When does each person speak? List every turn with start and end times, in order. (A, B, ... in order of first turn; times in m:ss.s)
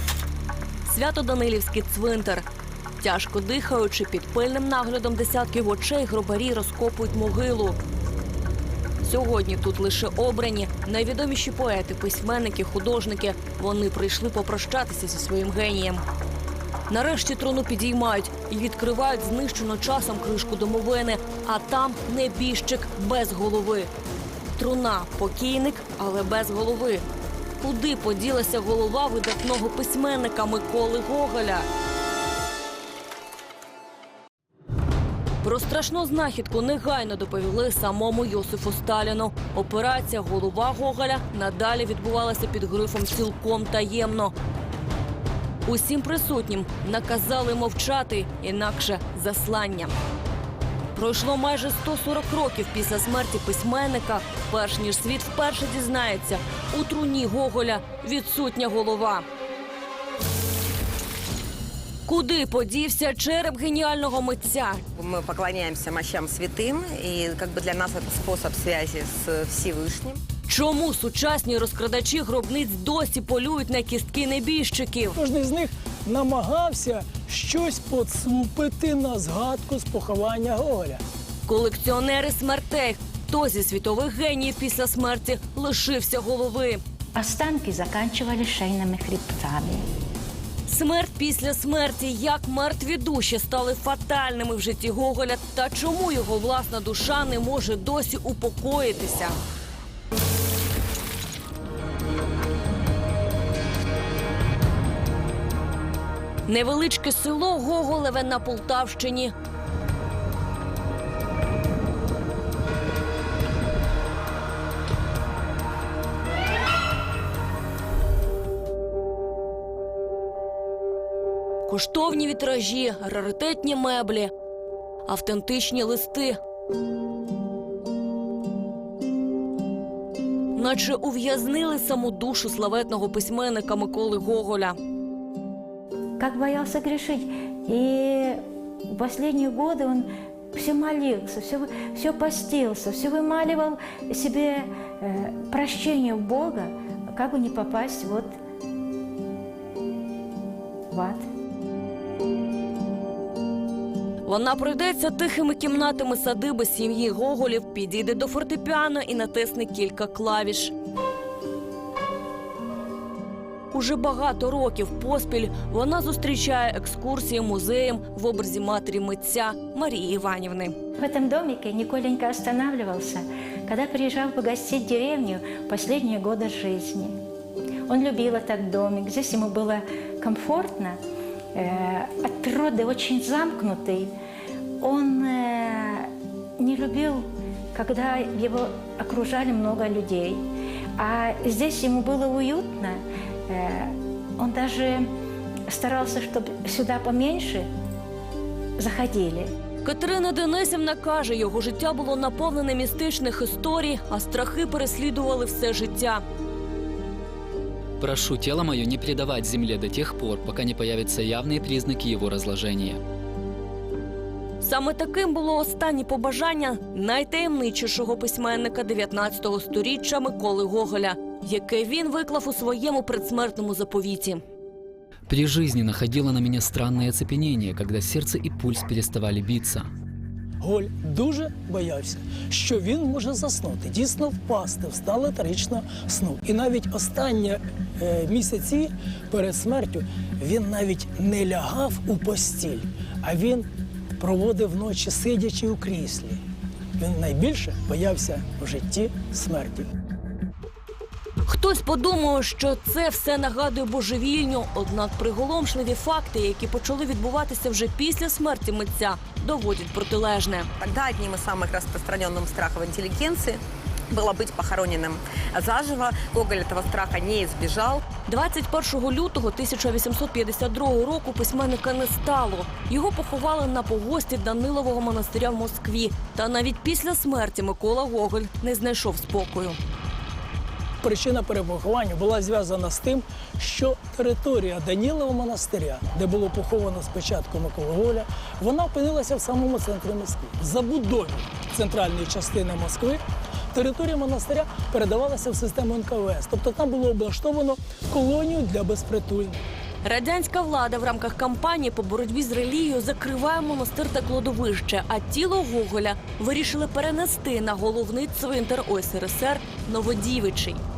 0:00.8-0:02.4 A
0:03.0-0:07.8 A
0:09.0-0:16.0 A
0:16.9-0:23.9 A
0:24.6-0:27.0 A
0:27.6-0:31.7 A
0:35.4-0:44.3 A
0:45.6-0:49.9 A
0:50.9-0:59.2 A
1:02.0-1:04.8 A
1:05.0-1:10.2 B
1:10.5-1:15.1 A
1:15.2-1:21.0 C
1:21.4-1:26.8 A
1:27.2-1:29.8 D
1:30.7-1:39.4 A
1:46.5-1:49.3 A
2:01.7-2:04.3 A
2:05.0-2:06.4 A
2:10.6-2:14.8 A
2:16.2-2:18.4 D
2:18.9-2:28.4 D
2:30.9-2:31.2 D
2:34.2-2:40.7 A
2:43.7-2:50.7 A
2:51.0-2:57.1 D
2:57.9-3:01.0 D
3:01.5-3:04.1 D
3:04.8-3:10.4 D
3:11.0-3:15.1 D
3:15.7-3:17.7 D
3:18.8-3:19.5 D
3:19.8-3:26.2 A
3:28.0-3:33.0 E
3:34.6-3:44.4 A
3:45.3-3:49.9 E
3:50.6-4:03.7 C
4:04.2-4:06.4 C
4:07.0-4:09.9 C
4:11.4-4:20.7 A
4:20.8-4:28.0 B
4:28.3-4:39.8 A
4:41.0-4:53.2 C
4:53.7-4:59.6 C
5:00.0-5:10.8 A